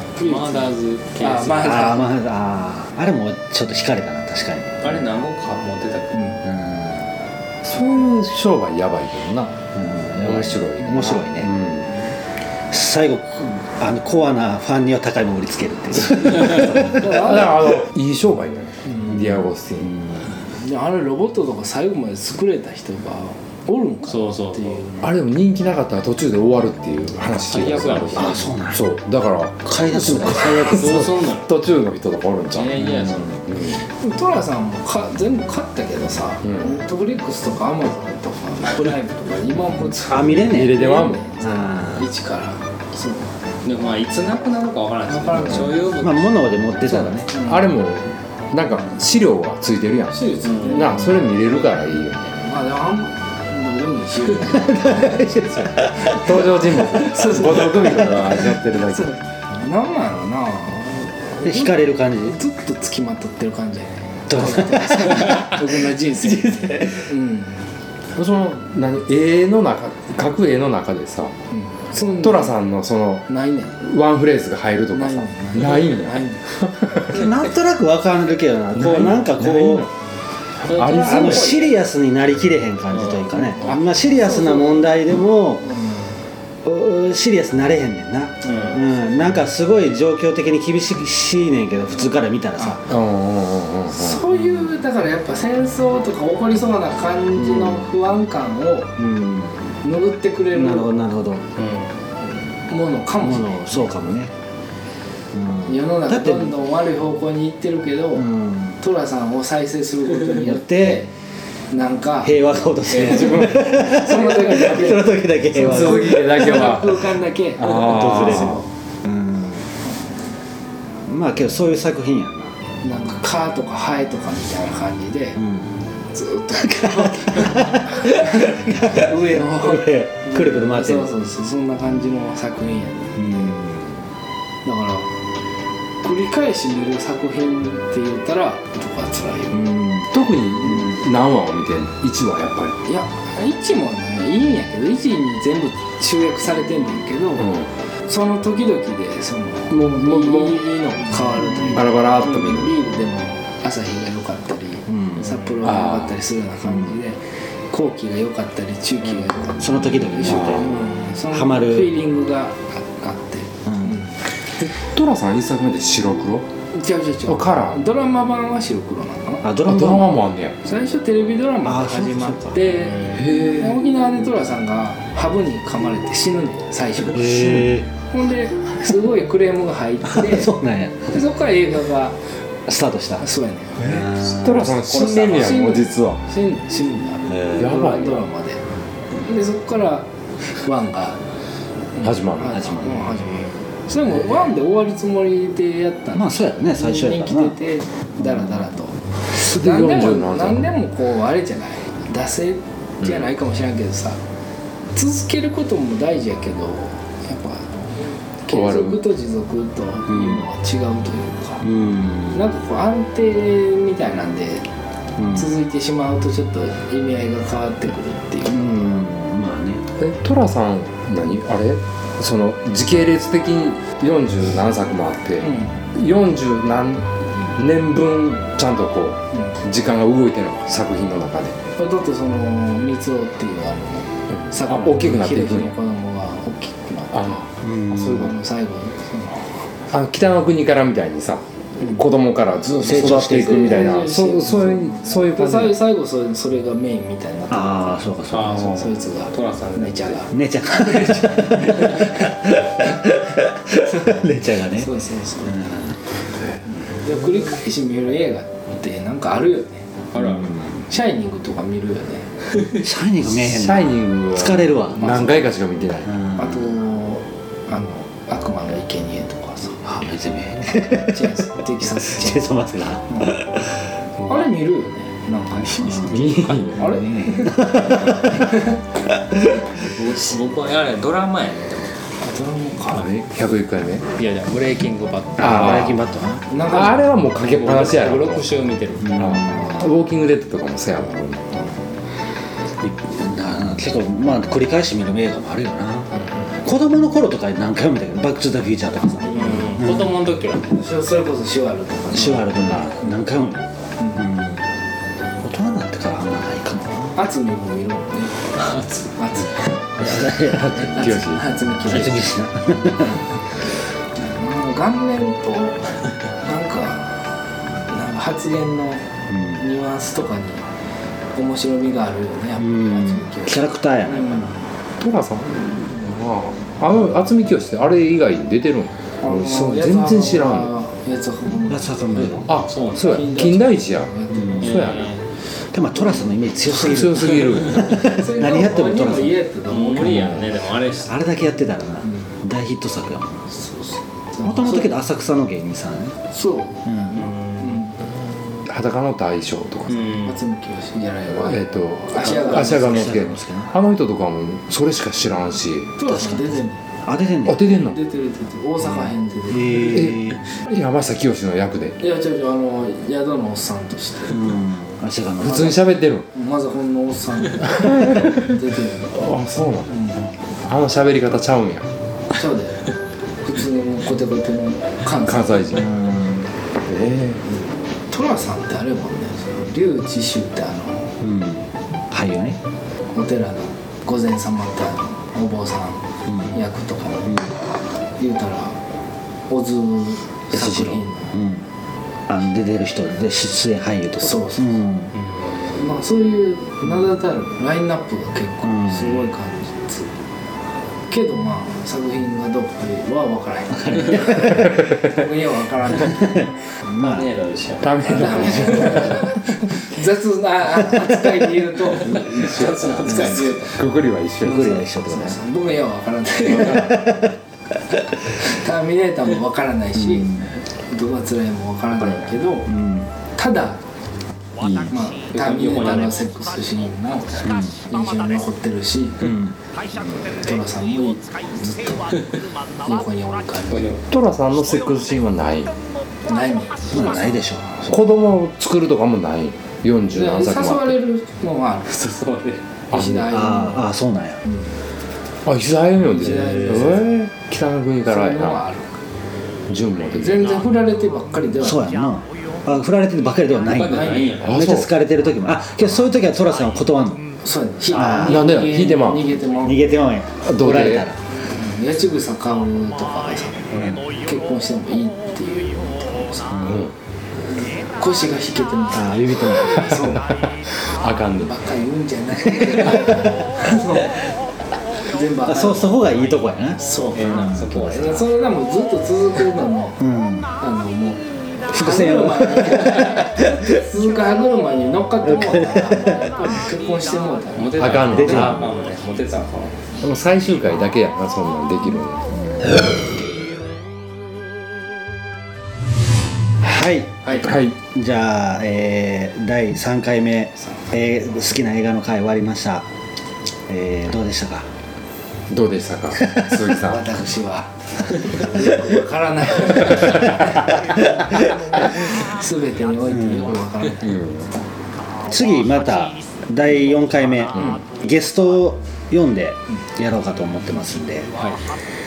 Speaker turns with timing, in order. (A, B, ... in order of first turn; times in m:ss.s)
0:00.2-0:02.0 A
0:00.2-0:02.1 B
0:01.6-0:05.0 C
0:04.8-0:06.4 A
0:06.4-0:07.1 C
0:07.6-0:09.6 D
0:09.7-0:11.5 C
0:10.2-0:11.9 D
0:12.7-0:17.3 C
0:16.8-0:19.9 D
0:16.9-0:17.6 B
0:19.8-0:20.3 C
0:20.5-0:25.1 B
0:24.0-0:24.8 A
0:25.0-0:32.8 D
0:27.5-0:28.5 A
0:28.1-0:28.8 C
0:29.6-0:31.1 C
0:30.5-0:31.5 A
0:32.5-0:33.4 A
0:32.8-0:33.3 C
0:33.4-0:33.8 D
0:33.8-0:43.3 B
0:36.4-0:36.7 D
0:40.0-0:40.8 C
0:40.4-0:41.2 D
0:41.4-0:42.1 C
0:43.6-0:46.3 A
0:45.1-0:45.8 B
0:45.9-0:47.3 C
0:47.0-0:47.6 B
0:47.3-0:52.2 D
0:50.1-0:51.3 B
0:50.4-0:50.8 A
0:52.2-0:55.5 B
0:54.4-0:56.0 C
0:55.7-0:59.2 D
0:57.0-0:58.2 B
0:58.9-1:07.7 B
1:01.4-1:02.4 C
1:04.3-1:05.5 C
1:06.4-1:07.0 C
1:08.1-1:11.4 D
1:11.5-1:12.5 B
1:12.2-1:13.2 D
1:13.3-1:13.8 B
1:13.8-1:17.3 D
1:14.9-1:16.4 B
1:17.1-1:19.9 C
1:18.7-1:19.9 D
1:20.6-1:21.6 D
1:20.6-1:21.8 A
1:21.0-1:25.7 C
1:23.0-1:23.3 A
1:23.4-1:24.9 B
1:25.6-1:26.1 B
1:26.6-1:32.8 C
1:28.4-1:28.8 A
1:32.8-1:34.3 D
1:33.9-1:39.0 B
1:37.4-1:37.8 C
1:39.0-1:39.8 C
1:39.8-1:40.9 B
1:40.5-1:41.4 C
1:41.6-1:41.9 A
1:42.7-1:43.9 B
1:43.2-1:44.3 C
1:45.3-1:46.5 C
1:45.6-1:48.3 B
1:48.2-1:48.8 C
1:48.8-1:51.1 B
1:50.3-1:51.0 C
1:51.7-1:58.7 B
1:52.2-1:56.6 C
1:52.9-1:54.5 D
1:55.5-1:58.6 D
1:57.6-1:59.7 C
2:01.0-2:02.6 C
2:02.8-2:05.4 B
2:05.4-2:05.8 C
2:06.1-2:13.6 B
2:06.6-2:11.1 C
2:13.2-2:13.9 C
2:14.6-2:15.1 B
2:16.0-2:19.8 B
2:19.5-2:20.0 C
2:20.1-2:22.8 D
2:22.8-2:27.5 B
2:27.4-2:27.7 D
2:28.0-2:44.2 B
2:29.7-2:30.6 D
2:31.6-2:32.8 D
2:34.9-2:35.2 C
2:35.6-2:36.2 D
2:39.6-2:42.0 C
2:40.2-2:40.8 D
2:43.7-2:44.0 C
2:44.8-2:46.5 D
2:46.7-2:49.4 B
2:47.3-2:47.8 D
2:49.4-2:50.1 C
2:49.6-2:50.6 D
2:50.6-3:00.6 B
2:51.6-2:52.6 C
2:53.2-2:53.8 D
2:57.1-2:57.9 C
3:00.0-3:01.2 C
3:01.1-3:02.2 B
3:02.7-3:03.3 C
3:03.2-3:03.8 B
3:03.8-3:06.2 D
3:03.8-3:04.7 C
3:04.7-3:08.6 B
3:07.3-3:07.7 C
3:07.6-3:08.2 D
3:09.1-3:11.2 B
3:12.0-3:24.2 B
3:12.0-3:12.8 D
3:12.5-3:13.2 C
3:16.1-3:17.6 C
3:19.3-3:20.7 D
3:24.9-3:31.7 B
3:28.5-3:29.0 D
3:31.6-3:32.4 C
3:32.3-3:34.7 B
3:35.3-3:39.0 B
3:38.5-3:39.8 C
3:40.0-3:51.6 D
3:45.4-3:45.8 B
3:51.8-3:57.4 B
3:54.4-3:55.7 D
3:57.1-3:58.3 D
3:57.6-3:58.3 C
3:58.0-3:59.6 B
3:59.9-4:05.8 D
4:02.8-4:04.0 C
4:03.2-4:08.0 B
4:07.5-4:08.9 C
4:08.3-4:10.2 A
4:08.6-4:12.3 B
4:10.3-4:16.0 C
4:13.8-4:15.7 B
4:16.8-4:19.9 B
4:20.1-4:20.5 A
4:20.2-4:20.8 C
4:20.9-4:22.3 B
4:22.8-4:25.3 C
4:23.2-4:26.2 D
4:25.0-4:25.4 B
4:26.0-4:26.6 C
4:26.3-4:29.8 B
4:29.8-4:31.3 C
4:30.7-4:32.5 B
4:32.0-4:33.9 C
4:33.1-4:33.4 B
4:34.2-4:38.8 B
4:35.8-4:36.2 C
4:36.0-4:37.0 D
4:36.3-4:36.7 A
4:36.8-4:38.5 C
4:39.8-4:42.0 A
4:42.2-4:43.1 B
4:42.9-4:44.0 D
4:44.1-4:46.0 A
4:45.4-4:46.4 C
4:45.4-4:46.0 D
4:46.5-4:47.0 B
4:46.6-4:48.5 D
4:47.4-4:49.4 A
4:49.0-4:49.7 C
4:49.2-4:51.5 D
4:52.8-4:56.1 C
4:56.6-5:00.1 C
4:59.3-5:00.8 A
4:59.3-4:59.7 B
5:00.7-5:02.8 B
5:02.1-5:04.6 C
5:05.4-5:07.2 C
5:07.1-5:08.5 B
5:08.6-5:09.1 A
5:09.2-5:12.4 B
5:10.0-5:11.2 C
5:10.3-5:11.6 D
5:11.8-5:13.2 C
5:11.9-5:12.2 A
5:14.1-5:17.3 B
5:17.9-5:20.7 B
5:19.3-5:19.6 C
5:21.3-5:24.6 B
5:22.6-5:24.4 C
5:25.0-5:30.7 D
5:29.2-5:35.0 B
5:31.6-5:32.6 C
5:32.4-5:35.1 D
5:32.5-5:33.2 A
5:34.3-5:34.6 C
5:34.6-5:35.2 A
5:35.7-5:39.4 C
5:36.6-5:38.2 D
5:38.0-5:40.4 B
5:39.7-5:41.2 A
5:41.1-5:43.4 C
5:43.5-5:45.0 B
5:44.4-5:46.2 C
5:46.3-5:46.9 B
5:46.8-5:47.2 C
5:47.1-5:47.8 A
5:47.6-5:47.9 B
5:48.6-5:50.3 D
5:49.9-5:50.3 A
5:50.2-5:53.1 B
5:51.3-5:56.0 D
5:52.2-5:53.7 C
5:56.0-5:56.8 B
5:56.0-5:57.6 C
5:57.4-5:58.0 D
5:57.8-6:00.2 B
5:59.5-6:00.4 C
5:59.9-6:02.0 D
6:02.0-6:04.5 B
6:04.3-6:05.8 C
6:05.4-6:06.3 D
6:06.3-6:09.3 B
6:07.7-6:08.5 D
6:09.1-6:09.9 D
6:09.9-6:10.3 B
6:10.6-6:11.9 D
6:12.3-6:12.9 B
6:13.4-6:15.9 B
6:15.2-6:15.9 D
6:15.7-6:16.4 C
6:16.8-6:17.4 D
6:18.1-6:21.2 B
6:21.2-6:22.6 C
6:23.1-6:27.5 B
6:28.2-6:28.8 B
6:29.5-6:31.4 B
6:30.5-6:31.6 C
6:32.3-6:35.1 C
6:34.2-6:34.8 B
6:35.7-6:40.1 B
6:38.7-6:39.1 C
6:41.1-6:46.5 B
6:43.8-6:44.6 C
6:44.8-6:45.1 D
6:46.8-6:47.3 C
6:47.0-6:49.2 A
6:47.8-6:49.3 D
6:48.0-6:53.8 B
6:52.0-6:53.7 A
6:52.2-6:54.7 D
6:54.4-6:55.4 C
6:54.4-6:57.2 B
6:56.5-6:57.3 C
6:58.3-7:02.7 B
7:00.0-7:00.5 C
7:02.7-7:03.1 C
7:03.4-7:03.8 B
7:04.6-7:05.0 D
7:04.9-7:09.4 B
7:05.3-7:06.2 A
7:07.4-7:07.7 C
7:09.2-7:09.5 C
7:10.0-7:12.3 B
7:12.8-7:14.0 B
7:13.7-7:14.0 A
7:14.1-7:15.7 D
7:16.3-7:17.6 B
7:16.9-7:18.0 C
7:17.8-7:21.0 D
7:20.1-7:22.0 B
7:21.9-7:22.6 A
7:22.9-7:23.8 B
7:22.9-7:23.3 D
7:23.2-7:24.4 C
7:25.4-7:28.6 D
7:26.1-7:27.0 B
7:28.0-7:28.9 B
7:29.7-7:30.7 D
7:30.2-7:31.9 B
7:31.6-7:37.2 C
7:33.6-7:34.6 A
7:33.8-7:34.4 B
7:34.4-7:34.9 D
7:37.4-7:39.8 B
7:37.9-7:38.5 C
7:38.0-7:39.3 D
7:39.6-7:41.2 C
7:40.4-7:41.1 D
7:41.5-7:46.6 B
7:43.7-7:44.0 C
7:46.5-7:46.8 C
7:46.6-7:46.9 D
7:47.8-7:50.3 B
7:48.9-7:50.0 C
7:49.6-7:51.5 D
7:51.4-7:54.1 B
7:52.7-7:53.2 C
7:55.1-7:56.0 B
7:55.4-7:58.2 C
7:56.8-7:57.2 B
7:57.1-7:58.3 A
7:57.8-8:00.0 B
8:00.0-8:00.5 C
8:00.6-8:08.3 B
8:01.7-8:03.6 C
8:05.3-8:06.1 C
8:07.6-8:09.8 A
8:07.8-8:08.7 D
8:08.2-8:08.7 C
8:10.0-8:12.3 D
8:16.6-8:22.9 C
8:17.3-8:17.8 D
8:23.7-8:24.7 C
8:25.5-8:27.0 D
8:26.2-8:26.5 C
8:26.8-8:34.2 B
8:30.0-8:30.6 D
8:30.8-8:31.3 C
8:33.1-8:33.5 C
8:34.0-8:34.6 D
8:35.3-8:41.3 C
8:37.5-8:37.8 D